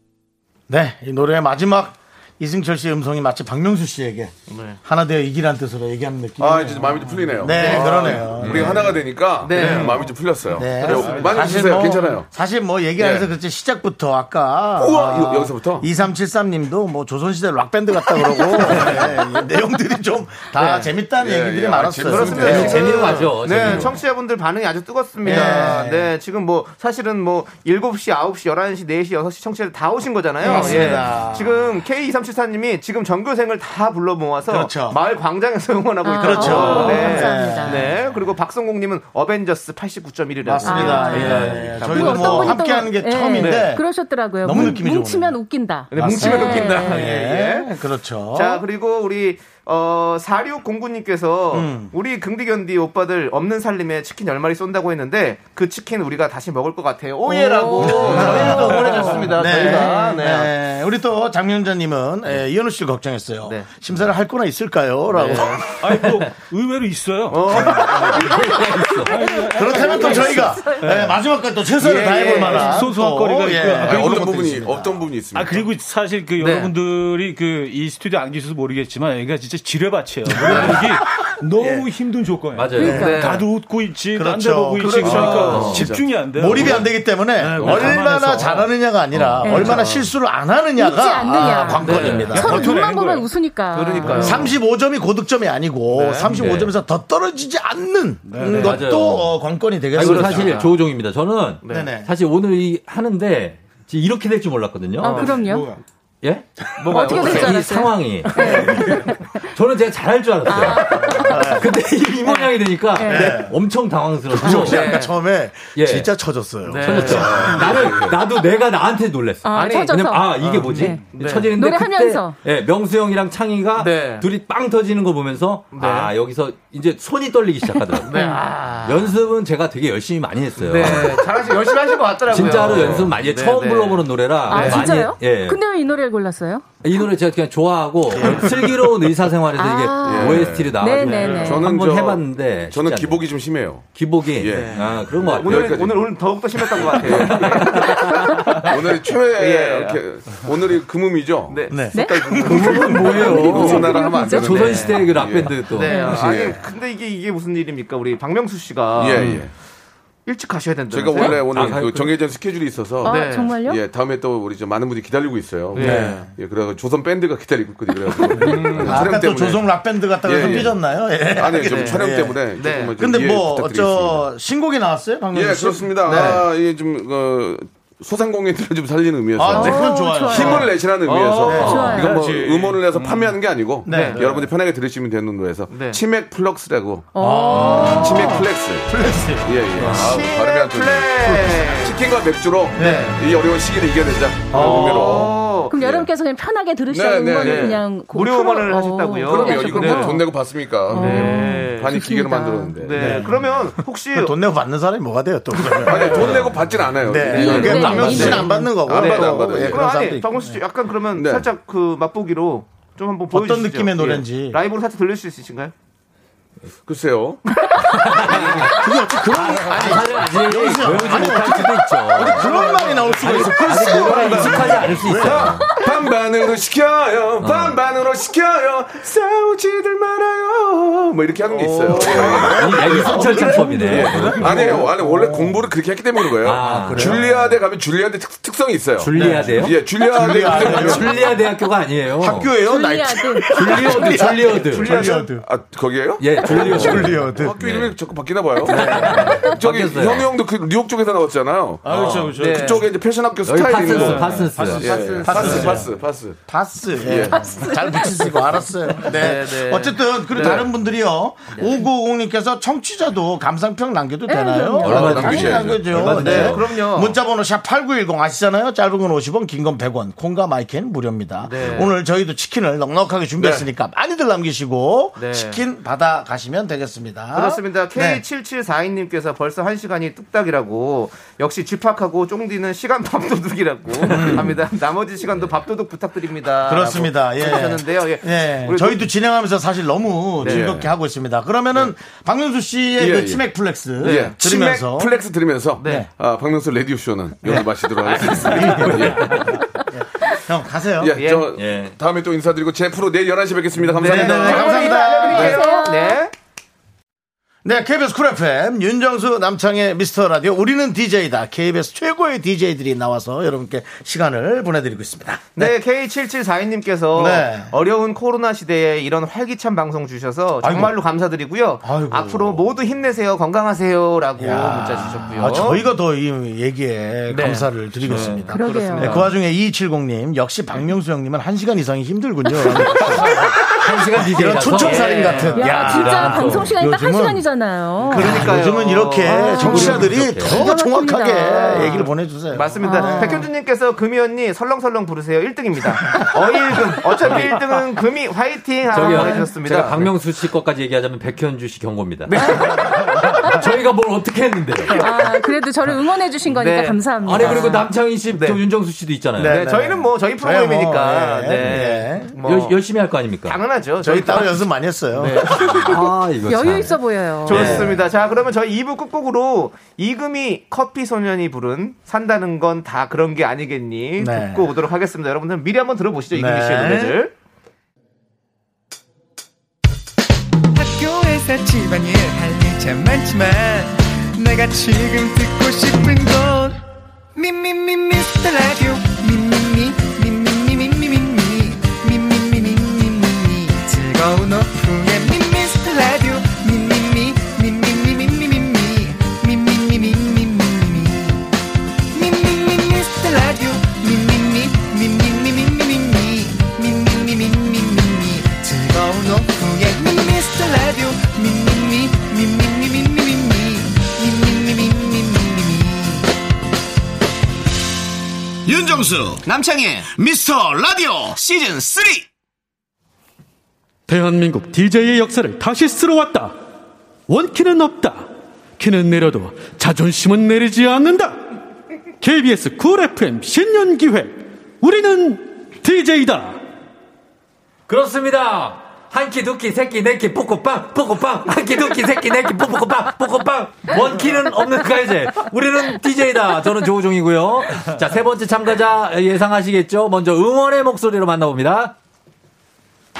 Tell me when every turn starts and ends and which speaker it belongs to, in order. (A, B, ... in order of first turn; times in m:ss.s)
0:00.7-0:04.3 A
0:04.5-0:04.8 B
0:04.8-0:09.9 A
0:06.4-0:12.3 C
0:07.5-0:08.8 B
0:09.4-0:10.1 B
0:10.6-0:23.2 A
0:10.8-0:11.5 D
0:13.0-0:13.3 C
0:14.8-0:15.9 C
0:18.5-0:19.2 B
0:20.5-0:20.9 B
0:21.2-0:23.8 C
0:22.1-0:42.6 B
0:22.4-0:24.0 E
0:25.2-0:26.1 A
0:30.4-0:31.6 A
0:30.4-0:31.0 F
0:34.5-0:35.0 A
0:36.0-0:37.9 F
0:36.2-0:37.9 A
0:40.4-0:43.9 A
0:40.6-0:47.0 F
0:43.4-0:43.7 B
0:44.4-0:45.4 A
0:45.9-0:47.8 B
0:45.9-0:48.6 A
0:48.3-1:00.5 B
0:51.5-0:51.9 A
0:57.4-0:58.2 F
0:57.8-1:05.7 A
1:05.1-1:05.6 B
1:05.8-1:08.3 D
1:07.3-1:08.3 B
1:08.0-1:09.3 E
1:09.0-1:11.2 D
1:09.5-1:15.0 A
1:10.0-1:10.8 F
1:11.8-1:12.8 B
1:12.5-1:14.3 D
1:13.8-1:15.6 C
1:15.3-1:28.8 D
1:16.4-1:16.7 B
1:20.3-1:20.9 A
1:21.6-1:21.9 A
1:22.5-1:23.1 E
1:22.7-1:23.2 F
1:22.8-1:23.2 A
1:23.0-1:23.5 B
1:24.1-1:25.6 A
1:24.8-1:25.9 B
1:24.9-1:26.8 C
1:25.4-1:25.9 E
1:26.3-1:32.7 A
1:27.6-1:28.0 E
1:29.1-1:29.5 E
1:29.4-1:29.8 F
1:29.6-1:30.0 B
1:30.8-1:34.4 F
1:31.8-1:32.3 B
1:31.8-1:32.4 E
1:32.3-1:33.3 D
1:33.7-1:34.5 B
1:34.1-1:40.7 A
1:35.9-1:36.4 B
1:36.2-1:36.7 E
1:38.2-1:38.8 D
1:38.4-1:39.4 E
1:39.9-1:45.3 E
1:40.0-1:40.7 B
1:41.6-1:41.9 B
1:41.6-1:42.1 A
1:45.0-1:45.7 F
1:45.2-1:45.8 D
1:46.2-1:48.9 E
1:46.8-1:48.8 B
1:46.9-1:49.2 F
1:49.5-1:55.0 E
1:50.5-1:51.6 F
1:50.9-1:51.7 A
1:52.3-1:53.3 F
1:53.1-1:53.6 A
1:54.3-1:57.4 A
1:54.4-1:55.2 B
1:55.7-1:56.1 E
1:56.7-1:57.4 B
1:56.8-2:08.2 E
1:57.0-1:58.2 C
1:59.4-2:02.4 F
1:59.5-2:01.5 B
2:03.8-2:04.3 B
2:05.7-2:06.1 B
2:08.0-2:08.4 F
2:08.0-2:09.2 B
2:08.8-2:11.3 E
2:10.6-2:14.8 B
2:12.3-2:15.6 E
2:14.5-2:16.6 F
2:16.8-2:23.3 E
2:18.2-2:18.5 A
2:19.6-2:21.7 F
2:20.0-2:31.7 C
2:21.1-2:21.5 B
2:23.9-2:25.8 E
2:24.5-2:28.3 B
2:27.1-2:28.2 E
2:29.4-2:30.0 B
2:31.5-2:31.8 B
2:31.7-2:33.4 A
2:31.9-2:34.8 F
2:32.4-2:36.6 C
2:32.5-2:36.0 E
2:34.4-2:39.4 B
2:35.8-2:36.2 F
2:39.0-2:39.5 C
2:39.1-2:39.4 E
2:40.2-2:41.7 B
2:40.9-2:49.7 C
2:41.1-2:42.1 E
2:43.0-2:43.8 F
2:43.0-2:43.5 B
2:45.7-2:46.3 B
2:45.8-2:46.3 A
2:48.4-2:52.4 A
2:50.2-2:50.8 C
2:51.4-2:54.2 C
2:51.5-2:52.0 B
2:52.6-2:52.9 B
2:53.0-2:56.4 A
2:55.3-3:16.1 C
2:56.0-2:56.4 B
2:59.4-3:00.8 A
2:59.5-3:00.7 F
3:01.0-3:01.9 B
3:01.4-3:01.9 A
3:01.6-3:02.1 F
3:01.9-3:03.4 D
3:03.9-3:04.3 A
3:03.9-3:04.2 B
3:05.7-3:06.0 B
3:07.1-3:08.4 F
3:07.2-3:09.9 A
3:09.8-3:12.0 B
3:12.7-3:13.2 A
3:14.5-3:15.2 A
3:14.5-3:15.7 B
3:15.7-3:20.2 F
3:16.9-3:17.8 C
3:17.4-3:20.2 B
3:19.2-3:23.4 C
3:20.9-3:21.9 B
3:20.9-3:22.7 F
3:22.8-3:24.3 B
3:23.0-3:23.4 A
3:24.1-3:26.5 A
3:25.8-3:29.8 C
3:26.1-3:26.5 E
3:27.0-3:30.5 A
3:27.3-3:28.7 F
3:28.1-3:35.7 B
3:31.1-3:31.5 C
3:33.3-3:34.6 A
3:36.8-3:37.4 C
3:37.8-3:45.8 E
3:38.3-3:38.7 B
3:38.3-3:38.7 C
3:38.5-3:45.7 A
3:39.6-3:40.2 B
3:43.2-4:01.1 C
3:47.4-3:47.8 E
3:51.5-3:52.4 B
3:51.9-3:55.6 A
3:52.4-3:54.8 E
3:53.5-3:54.7 D
3:56.4-3:57.2 E
3:56.5-3:57.5 A
3:59.0-4:02.6 E
3:59.1-4:01.4 A
4:02.2-4:05.4 A
4:02.6-4:03.9 F
4:03.5-4:05.0 E
4:04.8-4:16.4 C
4:06.2-4:07.9 E
4:06.5-4:07.5 A
4:08.6-4:10.3 E
4:08.7-4:09.4 A
4:11.8-4:12.8 D
4:11.8-4:12.4 E
4:12.3-4:12.8 B
4:13.4-4:14.9 E
4:13.8-4:15.9 D
4:14.7-4:15.6 B
4:15.2-4:15.8 A
4:16.5-4:38.2 A
4:17.0-4:17.4 C
4:17.3-4:18.3 F
4:19.0-4:20.7 B
4:24.3-4:25.5 F
4:24.8-4:26.6 E
4:24.8-4:26.5 C
4:26.0-4:27.2 B
4:31.4-4:32.0 B
4:33.4-4:33.6 C
4:35.2-4:35.6 B
4:37.3-4:49.1 B
4:44.0-4:44.6 A
4:46.6-4:55.1 A
4:50.4-4:50.7 B
4:50.4-4:50.9 C
4:53.0-4:53.4 C
4:54.0-4:59.5 C
4:54.0-4:54.4 B
4:55.8-4:56.1 B
4:58.0-4:58.6 B
4:58.2-4:59.2 A
4:58.9-4:59.6 E
4:59.9-5:01.2 A
5:01.0-5:05.5 C
5:01.2-5:01.5 B
5:01.5-5:01.9 E
5:04.0-5:06.3 B
5:04.0-5:05.6 A
5:04.4-5:06.2 F
5:07.6-5:15.7 A
5:15.6-5:25.9 B
5:17.1-5:17.7 A
5:20.6-5:21.0 A
5:21.8-5:22.6 A
5:24.4-5:37.5 A
5:27.3-5:29.3 B
5:28.5-5:29.1 F
5:33.2-5:36.8 E
5:34.7-5:35.8 B
5:35.5-5:38.5 F
5:38.0-5:43.4 A
5:38.1-5:40.1 B
5:39.3-5:42.1 F
5:39.5-5:40.7 E
5:41.7-5:50.2 B
5:42.8-5:43.4 F
5:47.2-5:47.6 E
5:48.9-5:55.1 E
5:48.9-5:49.5 F
5:52.2-5:53.0 B
5:52.3-5:53.4 F
5:54.9-5:57.9 F
5:56.4-5:58.6 B
5:57.2-5:59.6 E
5:59.4-6:02.3 A
5:59.4-6:02.8 B
6:02.4-6:03.6 E
6:03.4-6:06.0 B
6:04.0-6:05.9 A
6:05.8-6:07.6 E
6:06.4-6:07.8 F
6:07.4-6:17.3 B
6:07.5-6:08.0 A
6:14.2-6:14.6 A
6:16.3-6:17.2 A
6:20.7-6:26.8 G
6:27.3-6:41.5 G
6:42.1-6:56.3 G
6:58.7-6:59.4 A
6:59.4-7:00.1 B
7:00.1-7:02.0 A
7:01.4-7:01.8 B
7:04.1-7:06.6 H
7:07.3-7:11.4 H
7:12.2-7:16.6 H
7:17.9-7:32.0 E